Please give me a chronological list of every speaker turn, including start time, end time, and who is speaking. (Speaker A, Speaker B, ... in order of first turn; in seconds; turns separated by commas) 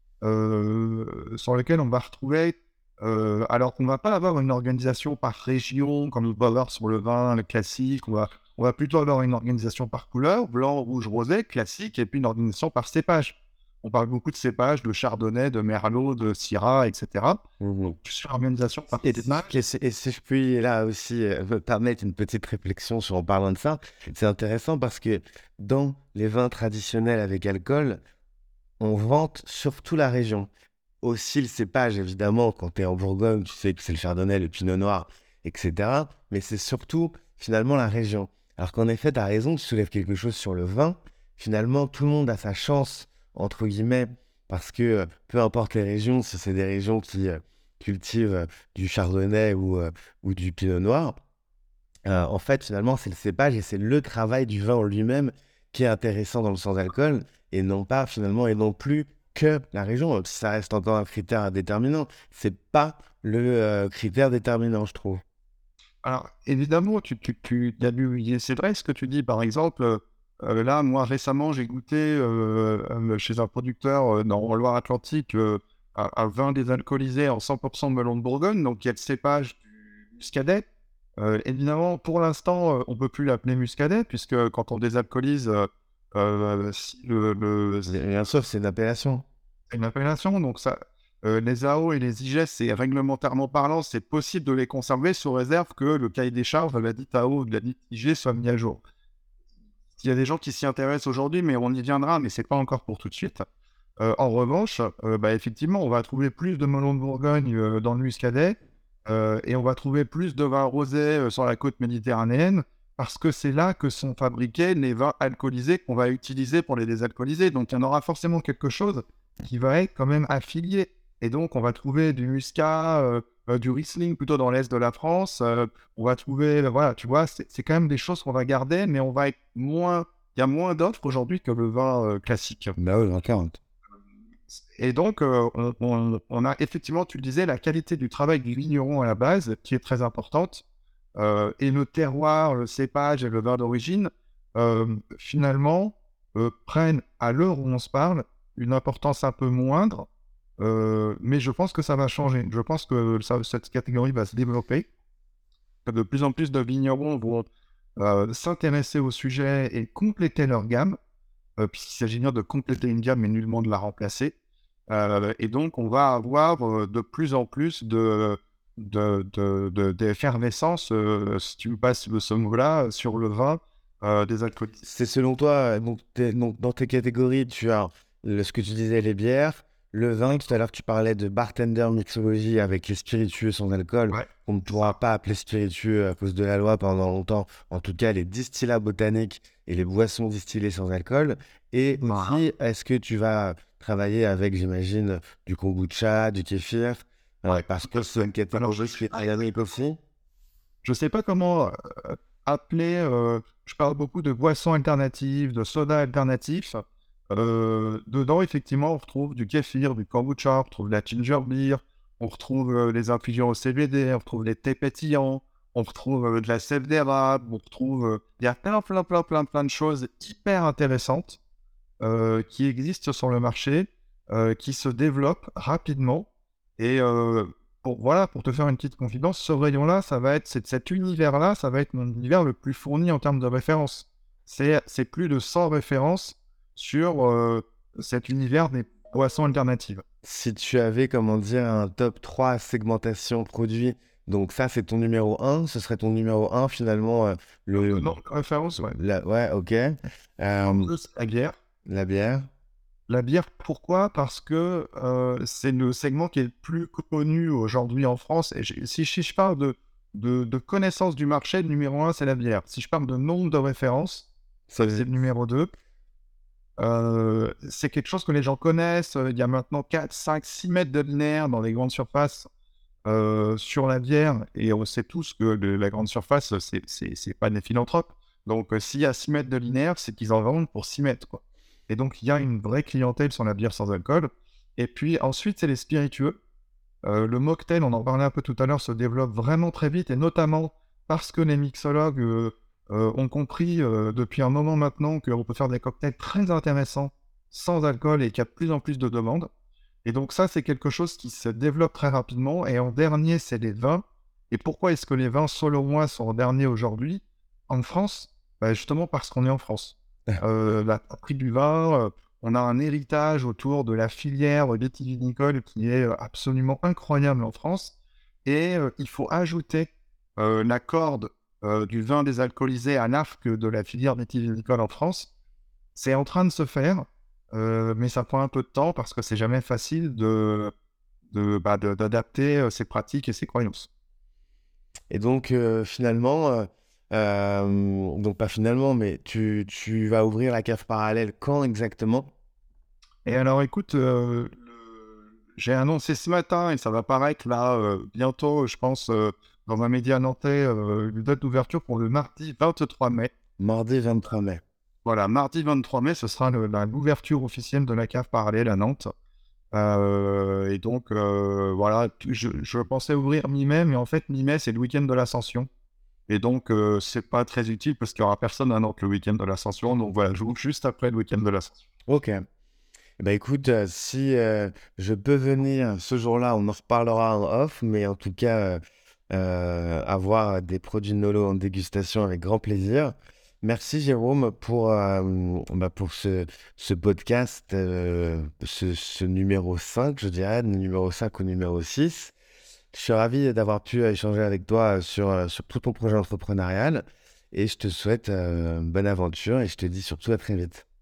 Speaker A: 0.2-17.4, Speaker B: 17.6-18.0, Speaker A: 18.0-19.5, Speaker B: 19.3-28.0, Speaker B: 28.8-30.5, Speaker B: 31.0-51.1, Speaker B: 52.0-65.2, Speaker A: 66.0-80.6, Speaker A: 81.2-87.9, Speaker B: 87.9-89.2, Speaker A: 89.7-98.8, Speaker A: 100.0-103.4, Speaker A: 104.0-108.5, Speaker A: 109.1-132.8, Speaker B: 132.8-133.6, Speaker A: 134.8-140.6, Speaker A: 141.2-150.1, Speaker A: 150.6-154.9, Speaker A: 155.8-161.0, Speaker A: 161.6-164.3, Speaker A: 164.9-174.8, Speaker B: 174.8-200.0, Speaker A: 192.1-192.4, Speaker A: 197.5-199.0, Speaker A: 200.8-221.4, Speaker A: 222.0-240.0, Speaker B: 240.2-248.2, Speaker A: 247.7-248.9, Speaker B: 248.9-250.9, Speaker A: 250.6-251.5, Speaker B: 251.8-252.5, Speaker A: 253.1-265.7, Speaker B: 264.7-265.1, Speaker A: 266.8-272.5, Speaker A: 273.1-286.4, Speaker A: 287.0-299.5, Speaker A: 300.0-325.3, Speaker A: 325.9-330.7, Speaker A: 331.3-333.9, Speaker B: 335.1-342.3, Speaker A: 343.2-353.3, Speaker B: 353.6-354.6, Speaker A: 355.0-359.1, Speaker A: 359.7-365.7, Speaker A: 366.3-371.8, Speaker B: 372.1-372.4, Speaker B: 373.2-392.3, Speaker B: 392.9-400.8